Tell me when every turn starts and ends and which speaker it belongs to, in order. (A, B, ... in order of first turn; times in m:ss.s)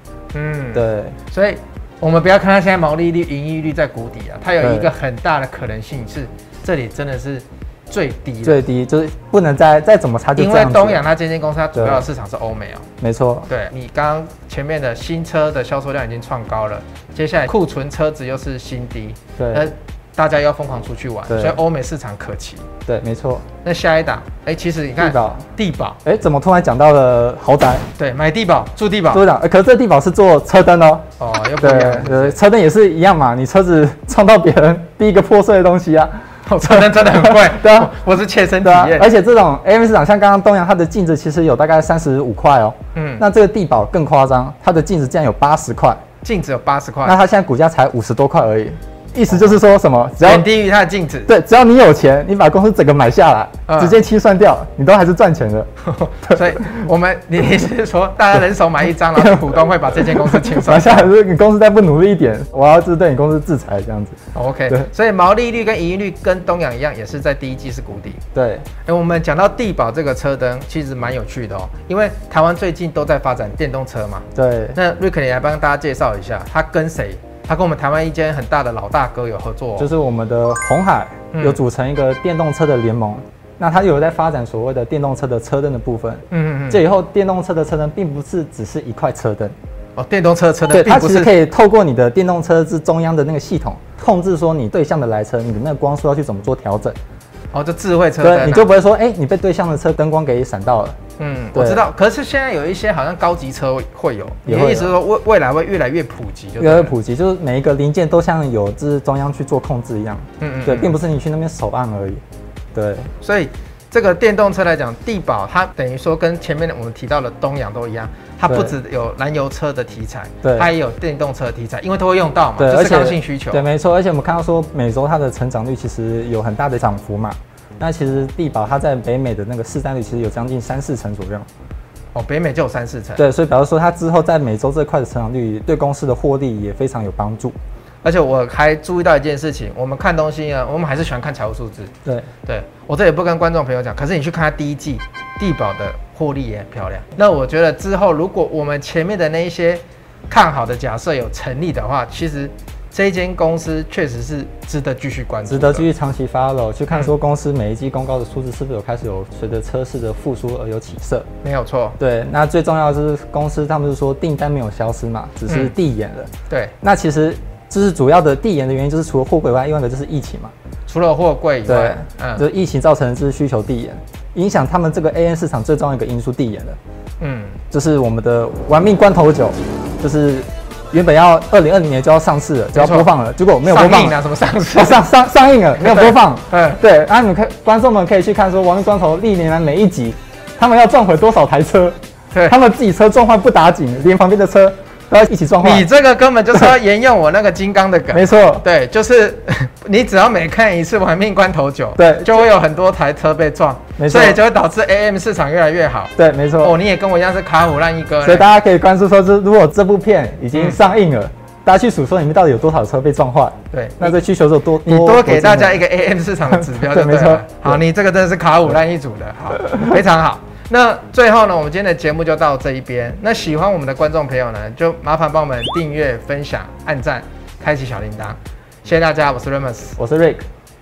0:00.3-0:08.6 A
0:00.7-0:01.2 B
0:04.6-0:04.9 B
0:08.4-0:11.0 B
0:10.4-0:12.8 A
0:11.7-0:12.0 B
0:13.0-0:13.5 B
0:13.5-0:22.6 A
0:19.4-0:19.7 B
0:21.3-0:21.6 B
0:22.8-0:23.4 B
0:23.6-0:26.0 A
0:25.0-0:25.4 B
0:26.0-0:27.8 B
0:28.0-0:29.2 A
0:29.1-0:31.0 B
0:31.2-0:32.4 A
0:31.6-0:37.9 B
0:36.5-0:39.1 A
0:38.6-0:46.0 B
0:42.9-0:43.2 A
0:46.2-0:47.2 A
0:47.0-0:50.5 B
0:50.2-0:51.3 A
0:51.3-0:55.7 B
0:53.7-0:54.0 A
0:55.8-1:01.1 A
0:56.3-0:56.7 B
0:59.2-1:04.2 B
1:04.3-1:08.2 A
1:08.3-1:08.6 B
1:08.8-1:19.9 A
1:14.3-1:14.8 B
1:19.8-1:29.5 B
1:21.3-1:21.6 A
1:26.3-1:26.8 A
1:30.0-1:31.3 A
1:30.7-1:37.0 B
1:37.5-1:38.7 A
1:38.2-1:41.0 B
1:41.2-1:46.9 A
1:41.5-1:41.8 B
1:44.4-1:44.9 B
1:46.6-1:52.2 B
1:50.4-1:51.0 A
1:52.7-1:53.1 B
1:53.2-2:03.6 A
1:58.5-1:58.7 B
2:00.4-2:00.7 B
2:02.6-2:11.5 B
2:12.1-2:13.2 A
2:13.2-2:17.6 B
2:18.0-2:21.9 A
2:22.4-2:35.8 A
2:35.5-2:41.2 B
2:41.4-2:42.0 A
2:42.0-2:46.3 B
2:45.5-2:45.7 A
2:46.5-2:46.7 A
2:46.8-2:50.5 B
2:50.9-2:52.4 A
2:51.7-2:56.8 B
2:57.2-2:57.6 A
2:57.7-3:04.2 B
3:02.7-3:03.1 A
3:03.6-3:05.0 A
3:04.7-3:12.0 B
3:05.8-3:06.8 A
3:12.5-3:15.9 B
3:15.6-3:28.4 A
3:18.1-3:18.6 B
3:22.0-3:22.5 B
3:24.0-3:24.4 B
3:26.2-3:26.8 B
3:28.2-3:35.8 B
3:33.7-3:34.2 A
3:34.8-3:50.0 A
3:36.5-3:37.8 B
3:50.0-3:50.4 B